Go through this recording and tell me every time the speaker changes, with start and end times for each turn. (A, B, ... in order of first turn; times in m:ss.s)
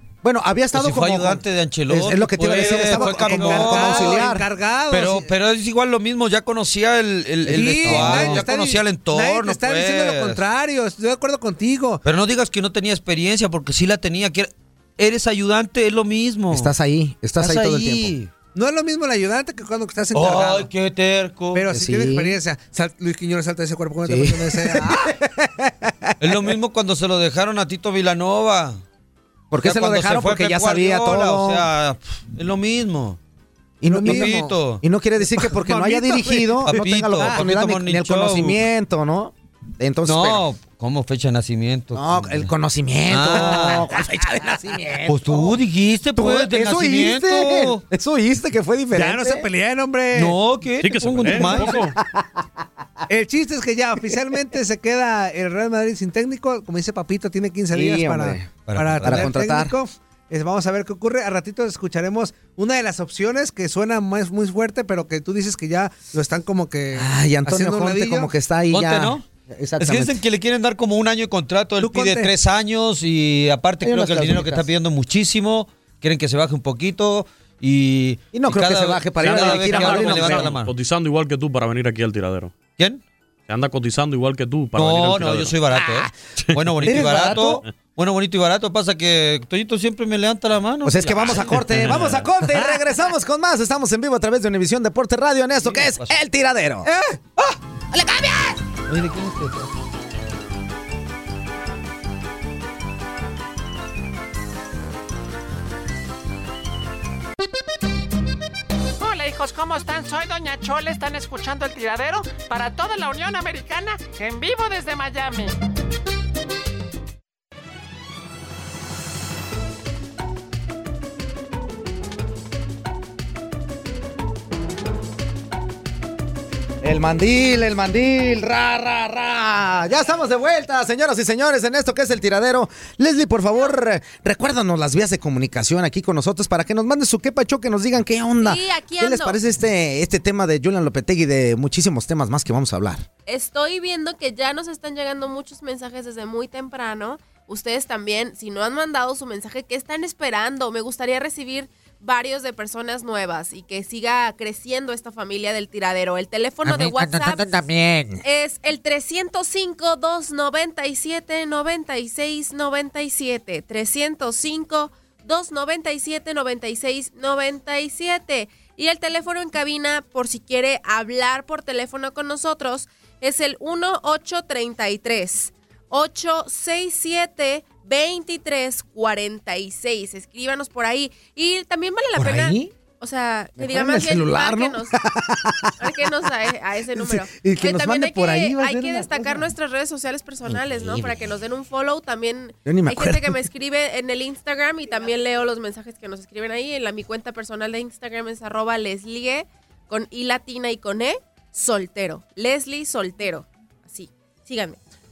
0:00.2-0:04.4 A
0:00.7-0:04.3 B
0:02.5-0:05.3 C
0:04.9-0:10.4 B
0:07.5-0:12.0 C
0:07.5-0:08.5 A
0:12.0-0:16.7 B
0:16.5-0:18.1 A
0:17.4-0:18.3 B
0:18.5-0:20.7 C
0:20.1-0:21.7 B
0:21.5-0:25.1 C
0:21.7-0:22.4 A
0:24.0-0:25.9 A
0:26.2-0:28.8 B
0:29.5-0:31.6 A
0:29.6-0:33.2 B
0:33.8-0:40.4 A
0:33.9-0:34.5 C
0:34.0-0:34.8 B
0:35.4-0:37.4 C
0:36.6-0:38.6 B
0:40.0-0:42.5 B
0:41.9-0:45.6 A
0:43.1-0:43.9 B
0:45.0-0:47.8 B
0:46.2-0:49.5 A
0:48.9-0:50.4 C
0:50.1-0:51.8 B
0:50.8-0:51.9 D
0:51.4-0:52.4 A
0:53.1-1:08.3 C
0:57.7-0:59.7 A
0:58.7-0:59.3 B
1:06.9-1:10.2 A
1:08.7-1:09.2 B
1:09.8-1:20.7 B
1:11.8-1:12.3 C
1:13.8-1:14.7 A
1:18.3-1:20.5 A
1:19.2-1:22.5 D
1:23.5-1:25.6 D
1:24.8-1:32.1 B
1:25.7-1:26.1 A
1:26.8-1:27.6 A
1:30.8-1:36.9 A
1:31.3-1:32.2 D
1:35.6-1:36.1 B
1:36.8-1:37.2 C
1:37.9-1:38.6 A
1:38.9-1:39.7 B
1:49.0-1:55.5 E
2:06.8-2:23.0 A
2:18.4-2:19.3 F
2:23.2-2:37.6 F
2:36.6-2:38.2 A
2:38.2-3:04.9 F
3:02.2-3:02.7 A
3:03.6-3:05.7 A
3:05.8-3:24.8 F
3:06.9-3:09.4 A
3:10.7-3:11.2 A
3:12.6-3:13.4 A